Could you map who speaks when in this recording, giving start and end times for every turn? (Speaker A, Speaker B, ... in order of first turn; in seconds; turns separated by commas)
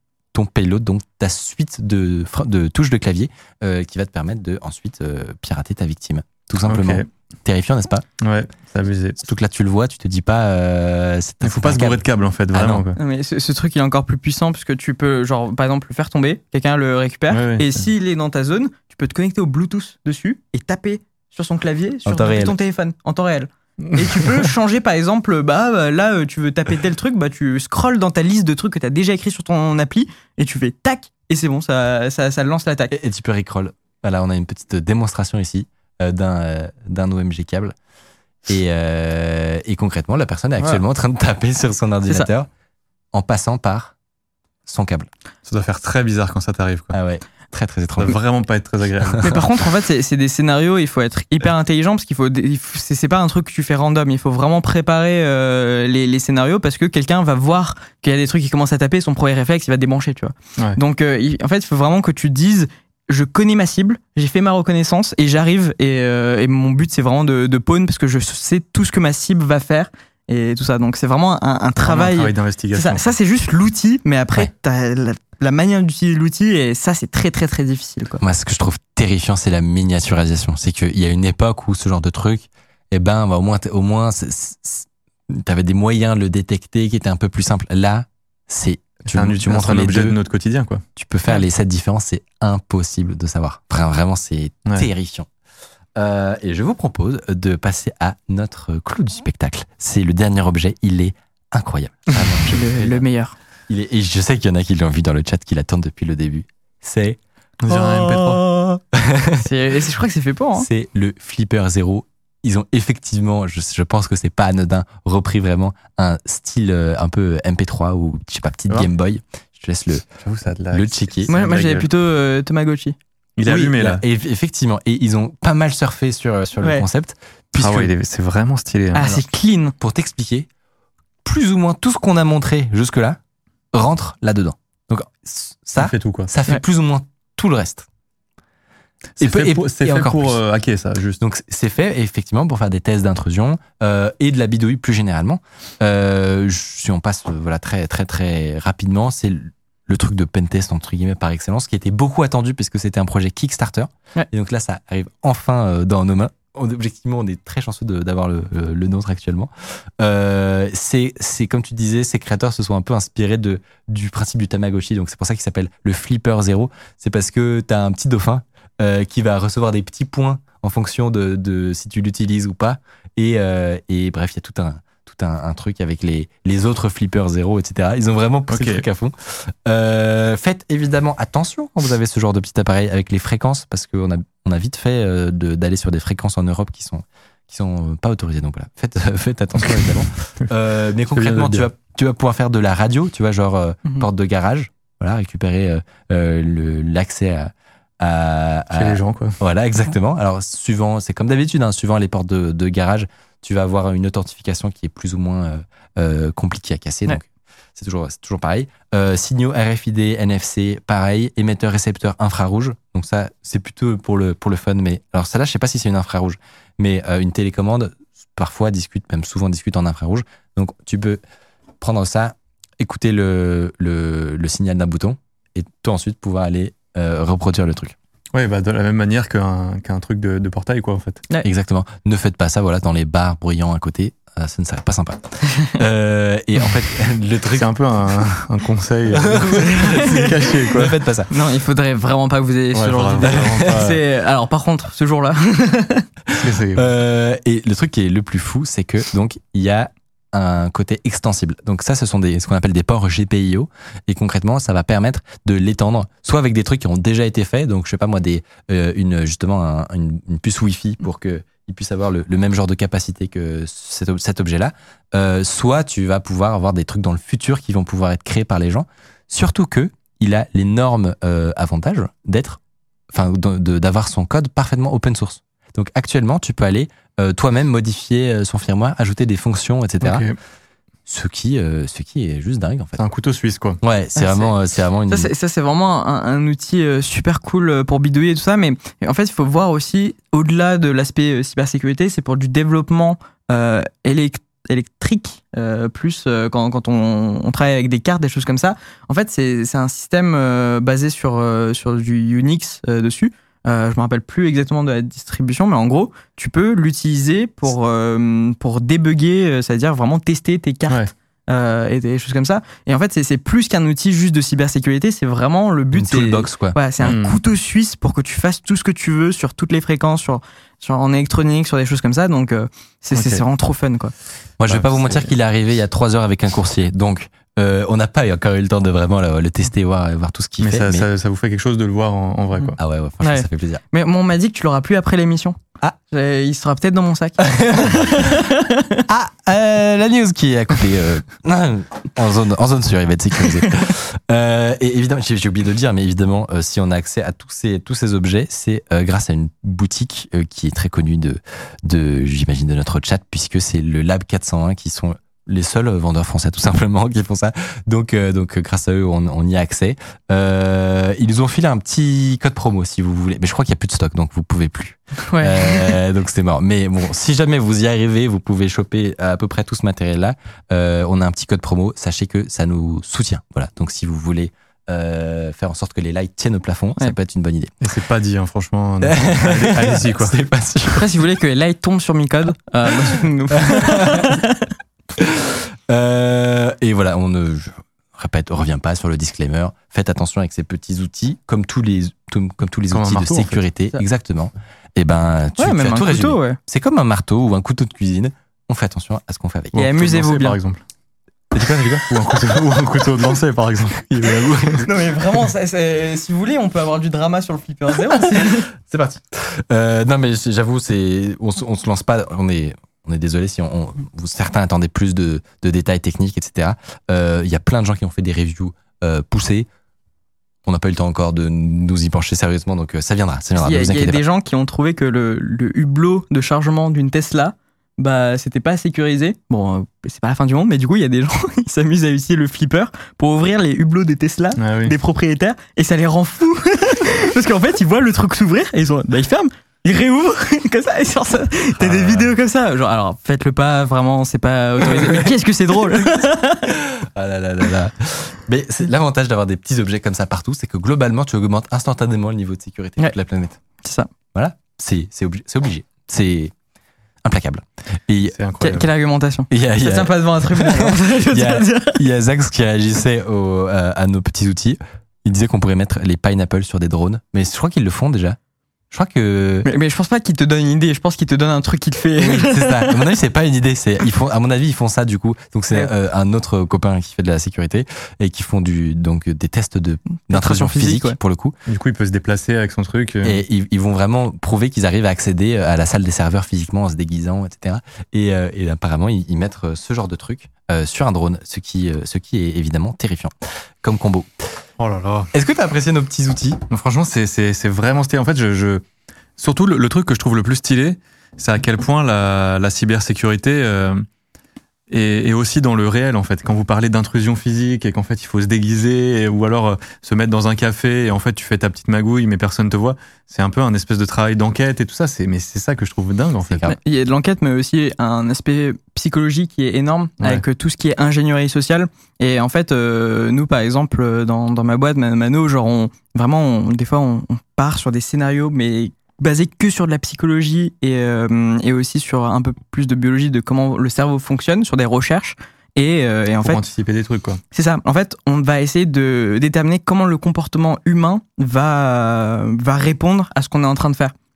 Speaker A: 0.3-8.1, Speaker B: 6.6-7.1, Speaker B: 8.2-9.2, Speaker A: 9.2-12.8, Speaker B: 11.4-13.0, Speaker C: 13.0-32.9, Speaker B: 17.3-17.8, Speaker A: 22.1-22.5, Speaker B: 24.0-24.4, Speaker A: 32.9-37.7, Speaker A: 38.5-42.5, Speaker A: 43.1-43.9, Speaker A: 44.6-45.1, Speaker B: 45.4-46.9, Speaker A: 46.9-48.2, Speaker B: 48.0-49.4, Speaker C: 49.2-78.2, Speaker B: 71.8-73.1, Speaker A: 78.2-90.2, Speaker B: 89.0-90.8, Speaker A: 91.0-95.3, Speaker A: 96.0-103.0, Speaker C: 102.4-103.3, Speaker A: 103.7-107.2, Speaker B: 107.6-108.4, Speaker C: 107.7-108.8, Speaker A: 108.9-109.5, Speaker C: 109.3-110.7, Speaker A: 110.6-120.0, Speaker B: 120.2-121.9, Speaker A: 120.7-121.3, Speaker C: 121.3-123.0, Speaker B: 123.4-124.0, Speaker A: 123.4-127.9, Speaker C: 126.6-126.8, Speaker B: 127.6-129.2, Speaker C: 128.9-129.7, Speaker A: 129.8-130.5, Speaker A: 131.2-133.2, Speaker A: 133.7-137.8, Speaker B: 135.8-136.3, Speaker B: 139.2-141.2, Speaker A: 139.2-140.4, Speaker A: 141.2-221.2, Speaker B: 178.5-178.8, Speaker B: 191.1-191.7, Speaker B: 198.7-199.4, Speaker A: 221.8-227.9, Speaker B: 228.3-231.2, Speaker A: 231.4-237.7, Speaker B: 237.6-241.0, Speaker A: 239.1-241.3, Speaker C: 239.9-240.2, Speaker C: 241.3-246.1, Speaker B: 242.7-244.0, Speaker A: 243.2-243.9, Speaker A: 246.3-272.6, Speaker B: 246.3-246.9, Speaker A: 273.1-280.3, Speaker B: 280.0-280.4, Speaker A: 281.1-283.0, Speaker B: 283.0-283.8, Speaker A: 283.8-285.3, Speaker C: 284.1-284.5, Speaker C: 285.1-324.1, Speaker A: 315.9-316.8, Speaker B: 317.0-317.4, Speaker B: 323.1-323.4, Speaker A: 324.6-331.1, Speaker B: 324.7-325.3, Speaker B: 330.6-332.8, Speaker A: 332.8-333.8, Speaker C: 333.2-339.0, Speaker A: 337.5-338.3, Speaker A: 339.1-377.7, Speaker C: 365.2-366.0, Speaker B: 377.8-380.3, Speaker A: 379.0-381.1, Speaker C: 380.9-384.7, Speaker A: 383.5-384.4, Speaker A: 385.2-399.8, Speaker B: 392.9-393.6, Speaker C: 395.6-396.6, Speaker B: 399.7-400.8, Speaker C: 399.7-400.6, Speaker A: 401.5-402.1, Speaker B: 402.1-404.1, Speaker A: 403.9-404.9, Speaker C: 404.8-408.7, Speaker A: 408.1-419.7, Speaker A: 420.6-424.2, Speaker C: 423.6-446.8, Speaker B: 434.6-434.9, Speaker A: 441.8-442.2, Speaker A: 444.9-445.3, Speaker A: 446.7-453.6, Speaker C: 453.8-454.1, Speaker A: 454.3-456.5, Speaker A: 457.2-458.4, Speaker B: 458.3-458.9, Speaker C: 458.6-462.0, Speaker A: 459.5-468.4, Speaker A: 468.9-469.7, Speaker C: 469.6-473.0, Speaker A: 472.2-481.6, Speaker C: 480.3-481.2, Speaker B: 481.7-483.4, Speaker A: 483.2-494.3, Speaker B: 494.8-495.3, Speaker A: 495.3-496.6, Speaker B: 496.7-498.8, Speaker B: 499.4-504.0, Speaker B: 504.9-516.6, Speaker A: 516.5-516.8, Speaker C: 516.6-536.6, Speaker B: 536.4-537.4, Speaker C: 537.5-544.1